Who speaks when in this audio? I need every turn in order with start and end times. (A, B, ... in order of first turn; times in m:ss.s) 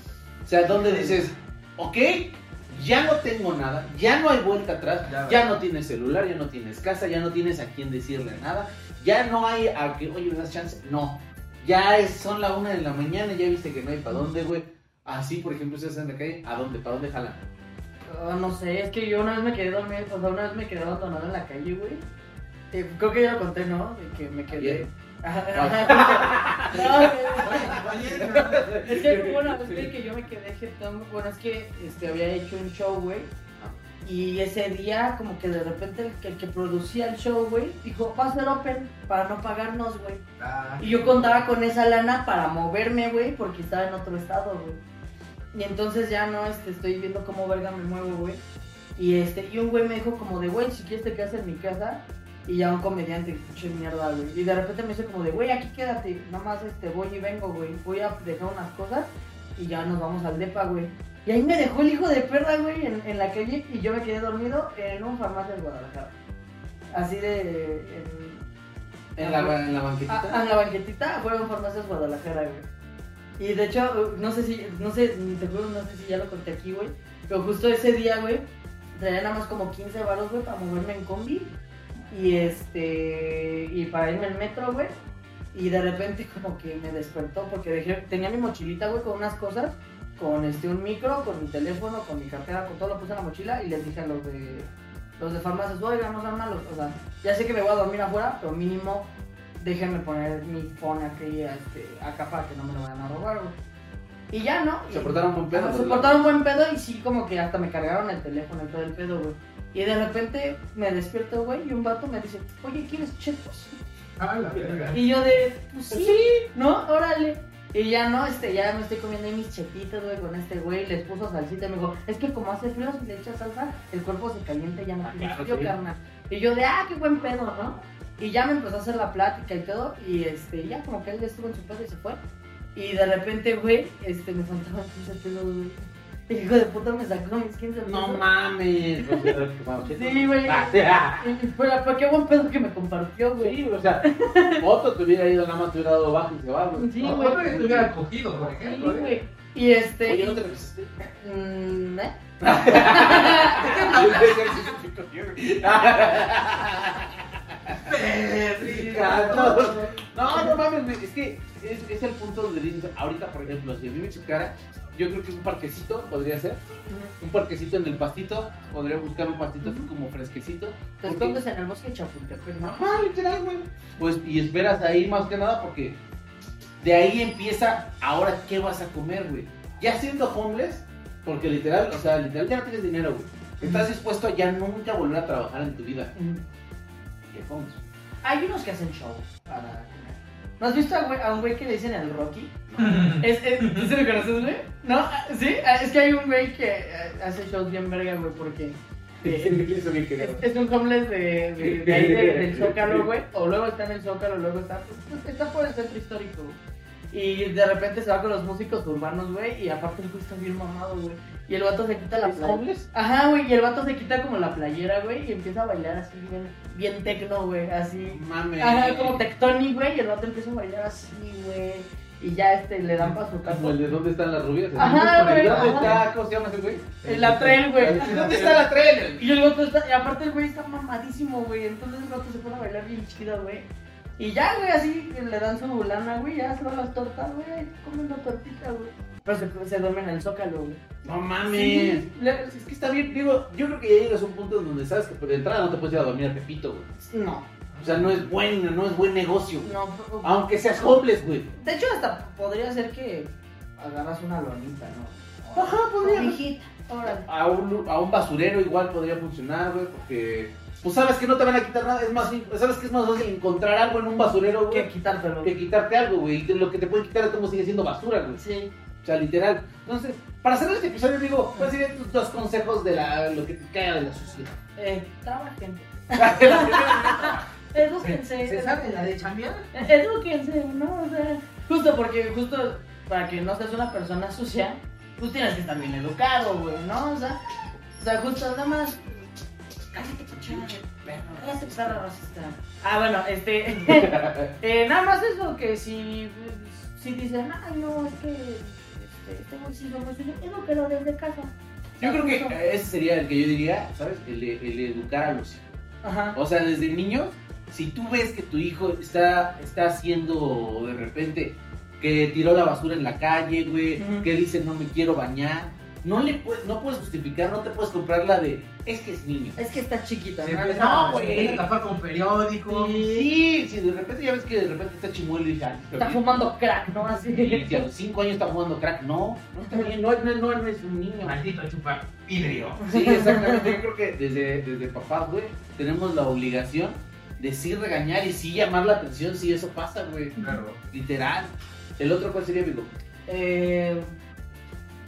0:00.4-0:17.4 A
0:05.1-0:05.5 B
0:18.1-0:22.0 C
0:22.7-0:27.9 C
0:24.5-0:24.8 A
0:25.5-0:29.9 A
0:27.4-0:28.7 B
0:28.8-0:33.3 C
0:34.0-0:40.2 C
0:40.4-0:41.4 B
0:40.8-0:44.8 C
0:45.5-0:48.4 C
0:49.0-1:06.1 C
1:06.9-1:08.4 C
1:09.2-1:10.4 A
1:09.2-1:12.6 C
1:13.4-1:21.5 C
1:22.1-1:24.9 C
1:25.5-1:43.6 C
1:44.3-1:53.8 C
1:44.9-1:46.3 A
1:54.2-1:55.0 B
1:54.6-1:54.9 A
1:54.9-2:12.2 C
1:55.9-1:56.5 A
2:05.0-2:05.7 A
2:12.7-2:18.2 C
2:17.8-2:21.3 A
2:19.0-2:19.3 C
2:19.9-2:24.6 C
2:23.4-2:27.9 A
2:26.8-2:27.6 C
2:27.0-2:29.1 B
2:28.5-2:30.4 C
2:30.0-2:30.9 A
2:31.2-2:34.0 C
2:32.4-2:38.0 A
2:33.5-2:34.4 B
2:37.7-2:39.7 B
2:38.6-2:46.6 A
2:38.6-2:40.0 C
2:47.2-2:51.4 A
2:49.6-2:49.9 C
2:51.0-2:53.1 C
2:52.6-2:56.0 A
2:56.8-3:06.1 A
3:06.1-3:06.4 C
3:07.3-3:07.8 A
3:08.2-3:26.6 C
3:12.7-3:13.2 A
3:12.8-3:13.2 B
3:19.2-3:20.4 A
3:21.6-3:23.1 A
3:27.1-3:43.8 C
3:32.2-3:32.9 A
3:38.0-3:39.2 A
3:43.4-3:47.0 A
3:44.7-3:46.0 C
3:44.8-3:46.0 B
3:47.0-3:48.6 B
3:47.0-3:48.6 C
3:47.7-3:49.3 A
3:49.2-3:53.6 C
3:54.2-4:00.8 C
4:01.0-4:06.9 A
4:01.4-4:02.4 C
4:07.1-4:07.5 C
4:07.7-4:08.3 B
4:07.8-4:11.6 A
4:09.6-4:10.3 C
4:11.6-4:17.3 C
4:15.5-4:16.4 A
4:17.0-4:24.9 A
4:24.7-4:25.5 C
4:25.4-4:28.4 A
4:28.4-4:28.7 C
4:29.0-4:34.6 A
4:34.8-4:39.0 C
4:36.1-4:37.5 A
4:38.0-4:39.7 B
4:39.7-4:47.4 C
4:48.0-4:49.0 C
4:49.9-5:02.6 C
4:50.4-4:52.0 A
4:53.8-4:54.5 A
5:02.0-5:05.8 A
5:06.0-5:06.4 C
5:06.3-5:19.6 A
5:14.0-5:14.3 C
5:19.6-5:21.6 C
5:20.4-5:22.9 B
5:20.7-5:21.6 A
5:22.7-5:23.3 C
5:22.9-5:31.4 A
5:26.0-5:27.8 C
5:31.2-5:32.8 B
5:32.7-5:40.4 A
5:32.8-5:33.8 C
5:40.4-5:40.6 C
5:40.4-5:40.8 B
5:40.9-5:42.9 A
5:43.3-5:44.1 C